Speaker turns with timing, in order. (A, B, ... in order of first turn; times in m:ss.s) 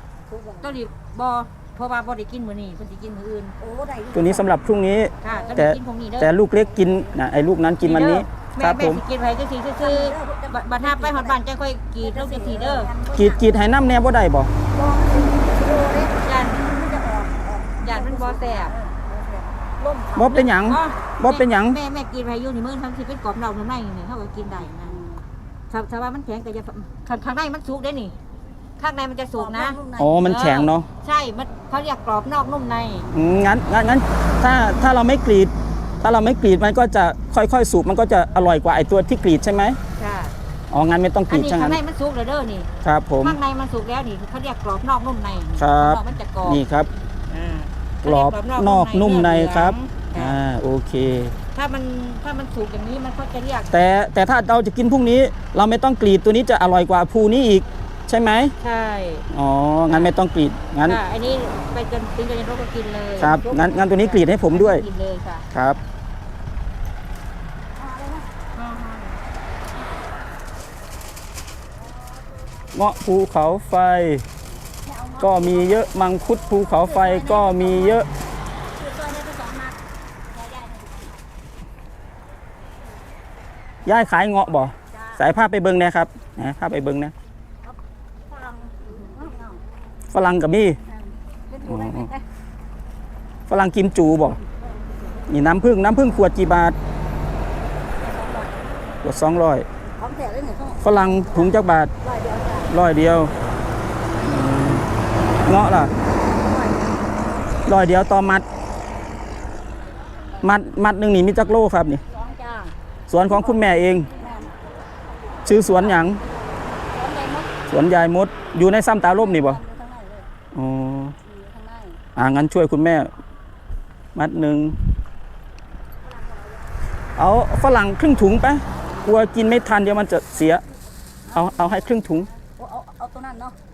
0:00.3-0:00.8 A
0:00.6-0:03.5 B
0:03.6-0:04.6 A
0:04.1-0:09.0 C
0:05.2-0:06.3 B
0:05.2-0:05.7 A
0:06.7-0:07.1 A
0:07.8-0:12.9 B
0:09.8-0:11.4 A
0:12.0-0:13.5 A
0:13.1-0:14.5 C
0:14.7-0:20.4 A
0:16.2-0:16.6 B
0:17.8-0:18.7 B
0:20.2-0:21.8 C
0:20.2-0:25.0 B
0:24.7-0:25.2 A
0:25.7-0:28.1 B
0:28.8-0:33.1 B
0:29.3-0:30.1 A
0:30.0-0:30.9 C
0:33.1-0:39.8 C
0:40.0-0:40.3 B
0:40.7-0:41.8 C
0:41.3-0:42.7 B
0:42.8-0:43.4 C
0:43.2-0:46.6 B
0:45.6-0:46.9 C
0:47.3-0:50.4 B
0:48.0-0:51.3 C
0:51.5-0:53.7 B
0:53.7-0:58.5 C
0:58.6-0:59.2 B
0:59.3-1:01.0 C
1:00.8-1:05.5 B
1:03.2-1:04.8 C
1:05.5-1:05.8 C
1:07.8-1:08.3 A
1:08.6-1:09.2 B
1:12.7-1:14.2 C
1:14.8-1:18.0 A
1:15.2-1:18.1 C
1:18.7-1:19.8 A
1:20.3-1:21.2 A
1:23.8-1:27.1 C
1:24.9-1:25.2 A
1:27.6-1:29.6 A
1:30.1-1:30.8 C
1:30.9-1:32.2 A
1:31.6-1:32.1 C
1:33.5-1:34.4 C
1:34.4-1:35.4 A
1:35.3-1:36.8 C
1:37.9-1:39.0 A
1:39.0-1:39.7 C
1:39.9-1:42.7 A
1:40.8-1:41.9 C
1:42.7-1:43.3 C
1:44.2-1:44.9 C
1:45.4-1:45.9 C
1:46.1-1:47.2 A
1:47.6-1:48.4 C
1:50.4-1:52.0 C
1:52.1-1:52.7 A
1:53.1-1:54.1 C
1:53.3-1:57.6 A
1:55.4-1:56.2 C
1:57.7-1:59.6 C
1:58.3-2:00.3 A
2:00.5-2:01.1 C
2:01.2-2:02.0 A
2:02.2-2:03.1 C
2:04.1-2:04.9 C
2:06.0-2:06.9 A
2:07.2-2:10.6 C
2:11.2-2:13.6 A
2:11.3-2:12.3 C